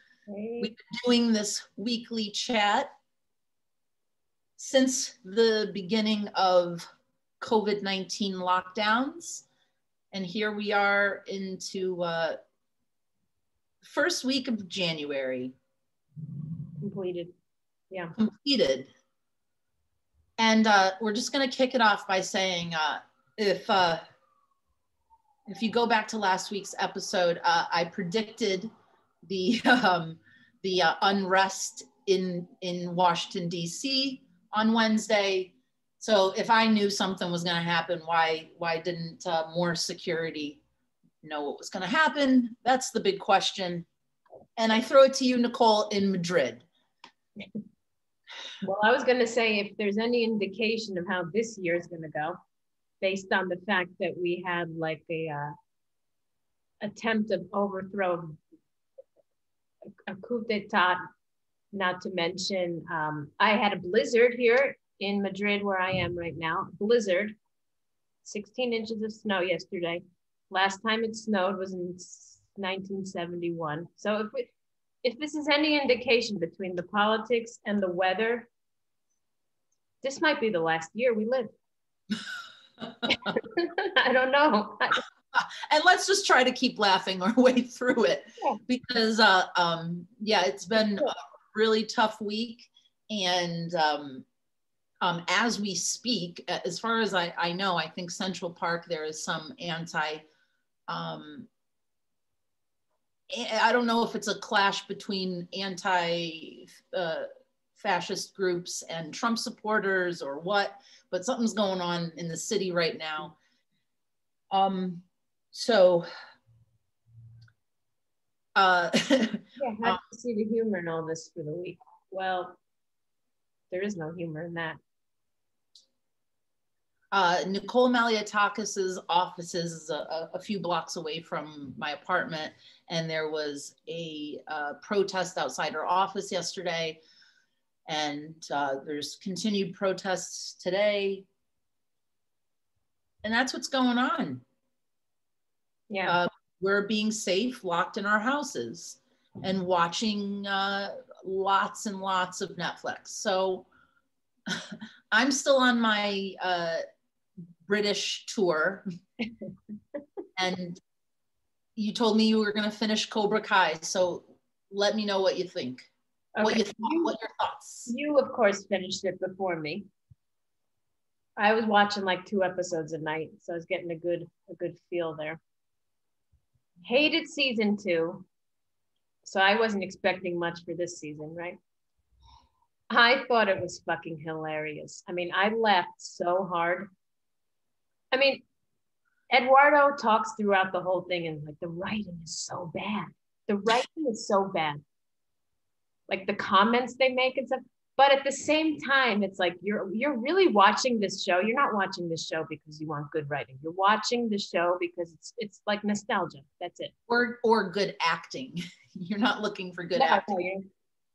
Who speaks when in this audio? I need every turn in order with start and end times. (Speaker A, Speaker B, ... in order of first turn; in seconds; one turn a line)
Speaker A: 0.3-0.7
Speaker B: 0.6-2.9
Speaker B: 4.6-6.8
Speaker B: 7.4-9.5
Speaker B: 10.1-12.4
Speaker B: 13.8-15.5
Speaker A: 16.8-17.3
Speaker B: 18.2-18.9
Speaker B: 20.4-24.0
Speaker B: 25.5-28.7
Speaker B: 29.2-40.6
Speaker B: 41.2-43.9
Speaker B: 44.6-46.7
Speaker A: 48.6-52.4
Speaker A: 53.0-55.5
Speaker A: 56.8-58.4
Speaker A: 60.1-61.0
Speaker A: 61.7-67.4
Speaker A: 68.2-74.5
Speaker A: 75.0-78.5
Speaker A: 80.0-81.5
Speaker A: 83.1-85.0
Speaker B: 85.3-94.2
Speaker B: 95.0-100.3
Speaker B: 100.9-101.5
Speaker B: 103.3-113.4
Speaker B: 114.5-116.1
Speaker B: 118.6-120.0
Speaker A: 119.6-122.6
Speaker A: 123.7-124.8
Speaker B: 127.1-137.0
Speaker B: 137.9-141.3
Speaker B: 143.2-144.4
Speaker A: 145.9-146.2
Speaker B: 146.1-153.7
Speaker B: 154.5-156.8
Speaker B: 157.7-158.8
Speaker B: 160.4-160.8
Speaker B: 161.8-165.9
Speaker A: 166.4-167.1
Speaker B: 166.4-167.9
Speaker A: 167.9-169.9
Speaker A: 171.4-175.4
Speaker A: 176.8-178.3
Speaker A: 179.2-181.6
Speaker A: 182.9-186.9
Speaker A: 188.1-188.4
Speaker A: 189.3-194.8
Speaker A: 196.1-206.9
Speaker B: 207.1-210.5
Speaker A: 210.0-210.7